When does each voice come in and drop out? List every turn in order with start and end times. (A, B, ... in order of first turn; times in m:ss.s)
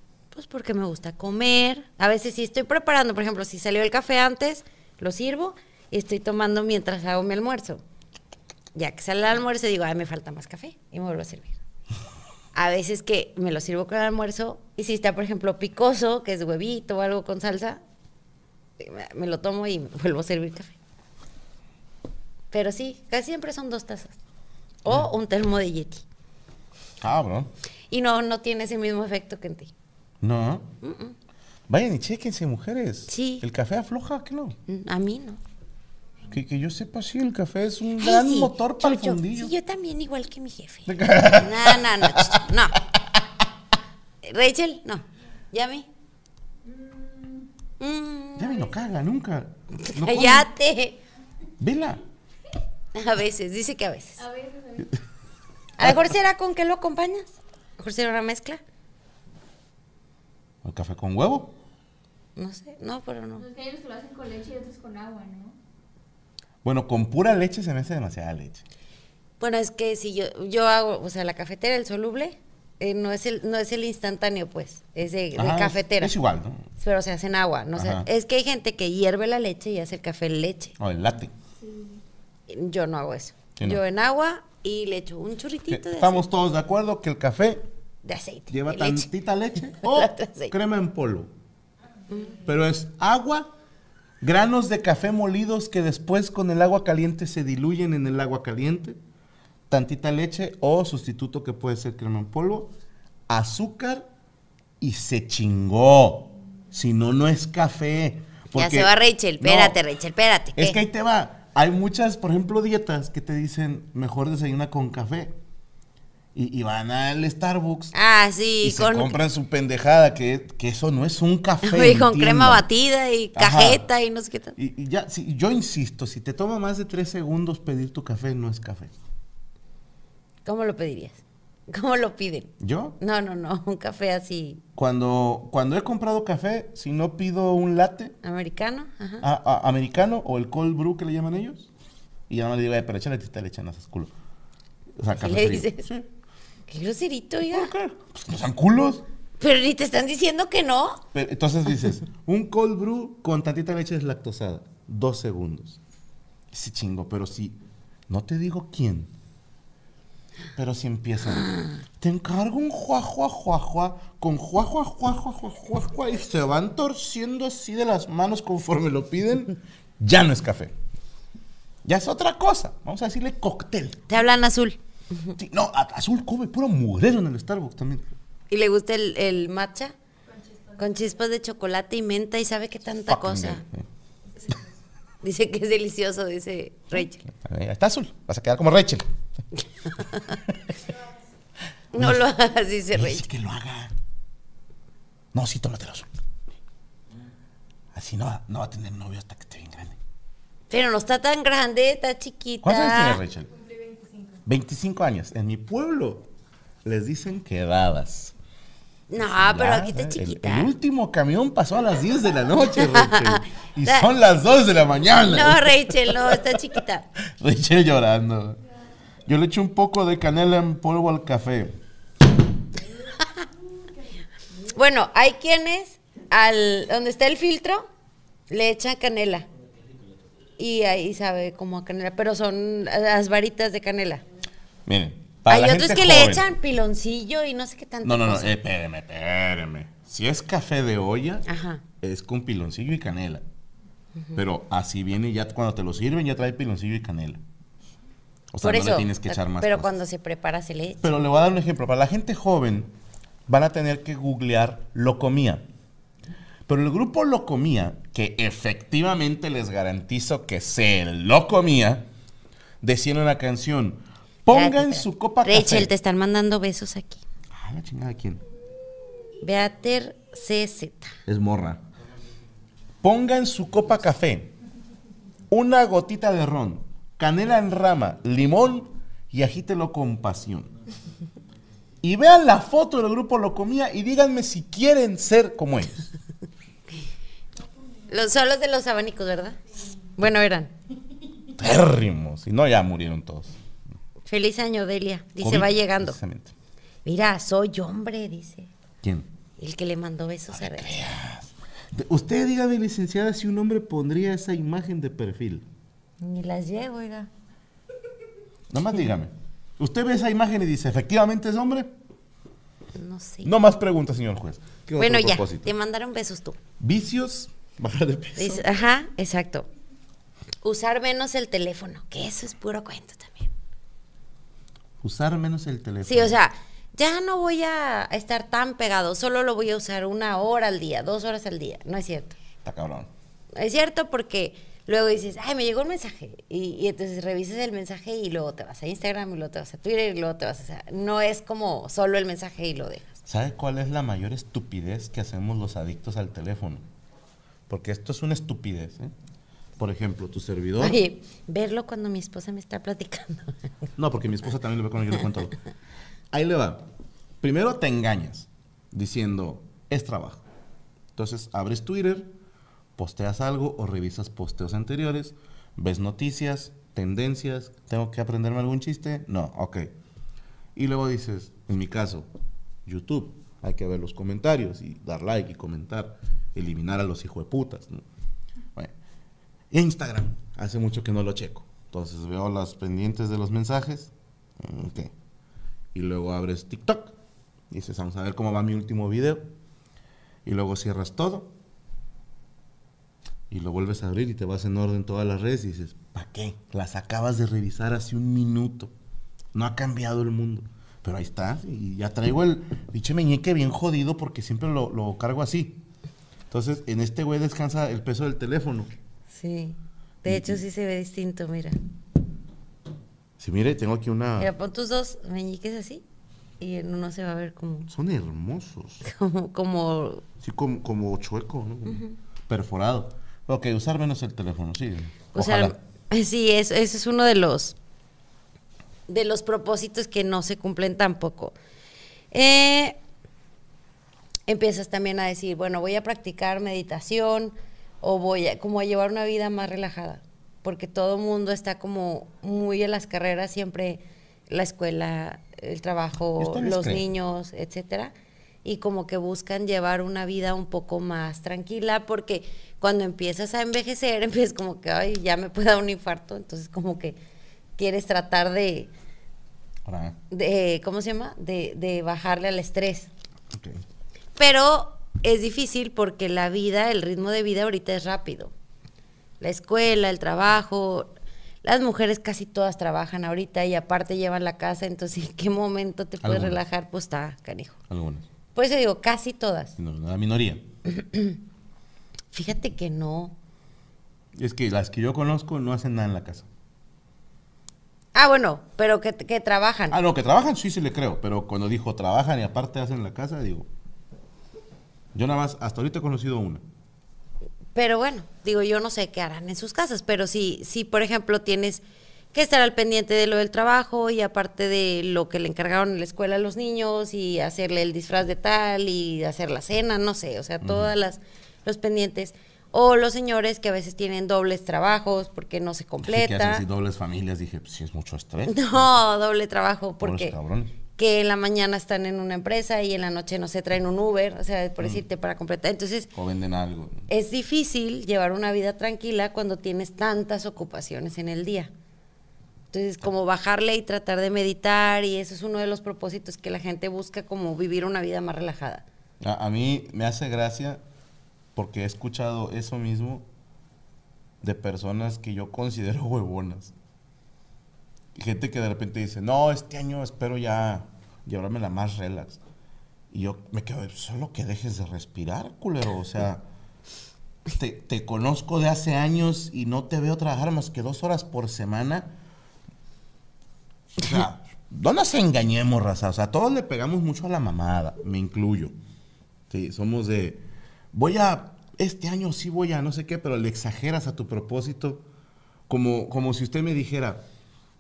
0:00.3-0:07.8 A
0:08.8-0:11.6 A
0:12.6-0:17.8 A
0:18.8-0:20.7 A
0:22.5-0:24.2 A
0:24.8-0:26.0 A
0:27.0-0:27.5 B
0:27.9-0:29.7 A
0:30.2-0:30.7 B
0:30.8-0:31.1 A
0:31.7-0:34.6 B
0:33.1-0:33.4 A
0:34.7-0:35.4 A
0:36.3-0:39.5 B
0:38.0-0:42.8 A
0:40.9-0:43.0 B
0:44.2-0:45.9 A
0:46.7-0:47.5 C
0:47.8-0:48.7 A
0:48.4-0:50.5 B
0:49.8-0:51.0 A
0:51.6-0:52.0 B
0:52.9-0:54.2 A
0:54.2-0:54.9 C
0:55.8-0:58.6 A
1:00.6-1:01.6 B
1:02.4-1:03.4 A
1:03.4-1:05.6 C
1:06.6-1:08.6 B
1:09.4-1:16.1 A
1:15.4-1:16.7 B
1:16.8-1:20.8 A
1:17.8-1:18.1 B
1:20.8-1:21.3 B
1:21.6-1:22.0 C
1:22.5-1:26.2 A
1:23.6-1:23.8 B
1:25.7-1:27.6 B
1:28.0-1:29.1 A
1:28.5-1:31.3 B
1:29.7-1:30.5 A
1:32.4-1:33.5 B
1:34.2-1:39.0 B
1:39.7-1:42.7 B
1:43.3-1:44.1 B
1:44.8-1:49.8 B
1:48.6-1:50.8 A
1:50.6-1:55.4 B
1:56.4-1:57.9 B
1:57.9-1:59.1 A
1:58.6-2:02.6 B
2:01.6-2:04.6 A
2:03.4-2:03.8 B
2:04.6-2:08.9 B
2:10.4-2:14.6 A
2:12.6-2:13.0 B
2:14.8-2:18.1 B
2:18.2-2:19.3 A
2:19.2-2:21.7 B
2:22.3-2:24.1 B
2:25.0-2:26.1 B
2:25.2-2:25.9 A
2:26.7-2:27.7 A
2:27.5-2:29.1 B
2:29.4-2:31.0 A
2:31.1-2:35.8 B
2:36.5-2:39.1 B
2:40.6-2:50.7 B
2:51.8-2:54.0 B
2:54.1-2:55.3 A
2:55.4-2:58.1 B
2:58.5-2:59.9 A
3:00.3-3:01.1 C
3:00.8-3:03.6 A
3:03.1-3:03.9 B
3:05.2-3:07.2 A
3:07.3-3:09.0 B
3:10.0-3:10.5 B
3:10.0-3:10.4 A
3:11.9-3:13.3 A
3:12.0-3:12.2 B
3:12.9-3:13.9 B
3:15.3-3:16.1 B
3:17.9-3:20.0 B
3:20.7-3:23.2 A
3:22.6-3:23.5 B
3:23.7-3:24.3 C
3:24.5-3:26.3 B
3:26.8-3:28.4 B
3:29.1-3:30.7 A
3:29.2-3:36.8 B
3:32.8-3:34.1 A
3:35.2-3:37.1 A
3:37.4-3:38.6 B
3:39.3-3:41.8 B
3:44.7-3:47.9 A
3:48.5-3:49.5 A
3:50.6-3:54.2 A
3:54.9-3:56.5 B
3:55.5-3:58.5 A
3:58.0-4:01.4 B
4:01.5-4:01.8 A
4:02.0-4:03.4 B
4:04.4-4:07.4 B
4:08.5-4:10.0 B
4:08.6-4:11.1 A
4:11.0-4:12.9 B
4:13.5-4:15.6 B
4:16.7-4:22.1 B
4:22.8-4:25.9 B
4:24.5-4:27.2 A
4:27.5-4:28.4 B
4:29.4-4:31.1 A
4:31.3-4:31.8 B
4:33.0-4:34.6 B
4:35.5-4:40.7 B
4:42.0-4:46.1 B
4:48.1-4:49.6 A
4:50.2-4:50.7 A
4:51.6-4:53.6 B
4:54.3-4:56.2 A
4:55.4-4:56.5 B
4:57.0-4:58.7 A
4:59.0-4:59.3 B
4:59.6-5:01.0 A
5:00.5-5:05.6 B
5:06.2-5:07.3 A
5:08.7-5:11.9 B
5:13.0-5:13.5 A
5:13.4-5:15.7 B
5:15.0-5:16.6 A
5:16.8-5:18.7 B
5:18.4-5:19.7 A
5:20.6-5:23.5 A
5:25.0-5:26.4 B
5:26.0-5:32.4 A
5:32.6-5:33.1 B
5:33.6-5:43.2 A
5:43.3-5:46.8 B
5:47.7-5:49.1 B
5:49.8-5:51.0 B
5:50.8-5:53.6 A
5:54.0-5:55.6 B
5:56.3-5:56.9 B
5:57.4-6:00.4 B
6:01.2-6:02.3 B
6:03.0-6:09.9 B
6:10.8-6:12.3 B
6:12.8-6:18.0 B
6:19.7-6:25.1 B
6:25.9-6:27.1 B
6:27.7-6:29.5 B
6:30.4-6:31.5 B
6:33.5-6:38.9 B
6:39.5-6:45.8 B
6:46.5-6:48.9 B
6:49.3-6:51.8 A
6:50.3-6:50.6 B
6:53.4-6:54.5 B
6:54.4-6:56.0 A
6:56.6-6:57.9 A
6:57.9-6:59.0 B
6:59.0-7:00.2 A
7:00.4-7:05.8 B
7:01.9-7:02.1 A
7:05.3-7:07.8 A
7:09.1-7:11.5 A
7:12.3-7:13.0 A
7:14.5-7:28.1 A
7:26.4-7:27.0 B
7:28.6-7:37.2 A
7:37.8-7:38.9 A
7:39.9-7:40.2 B
7:40.3-7:43.1 A
7:43.5-7:43.8 B
7:44.4-7:48.5 A
7:49.4-7:51.1 A
7:51.6-7:57.8 A
7:56.2-7:56.6 B
7:57.9-7:58.2 B
7:58.6-7:59.7 A
7:59.8-8:00.6 B
8:00.9-8:01.4 A
8:02.3-8:03.4 A
8:04.4-8:06.5 B
8:08.1-8:10.0 A
8:09.9-8:13.7 B
8:15.1-8:16.6 B
8:17.7-8:21.8 A
8:22.3-8:36.6 A
8:30.6-8:30.9 B
8:36.0-8:39.0 B
8:38.5-8:40.4 A
8:40.0-8:40.7 B
8:41.0-8:46.1 A
8:46.1-8:47.1 B
8:47.1-8:51.7 A
8:52.7-8:58.8 A
8:59.2-9:00.8 B
9:01.6-9:03.3 B
9:04.4-9:06.7 B
9:08.1-9:12.4 B
9:13.1-9:16.4 B
9:17.6-9:22.1 B
9:24.0-9:28.7 B
9:29.5-9:35.0 B
9:35.7-9:37.2 B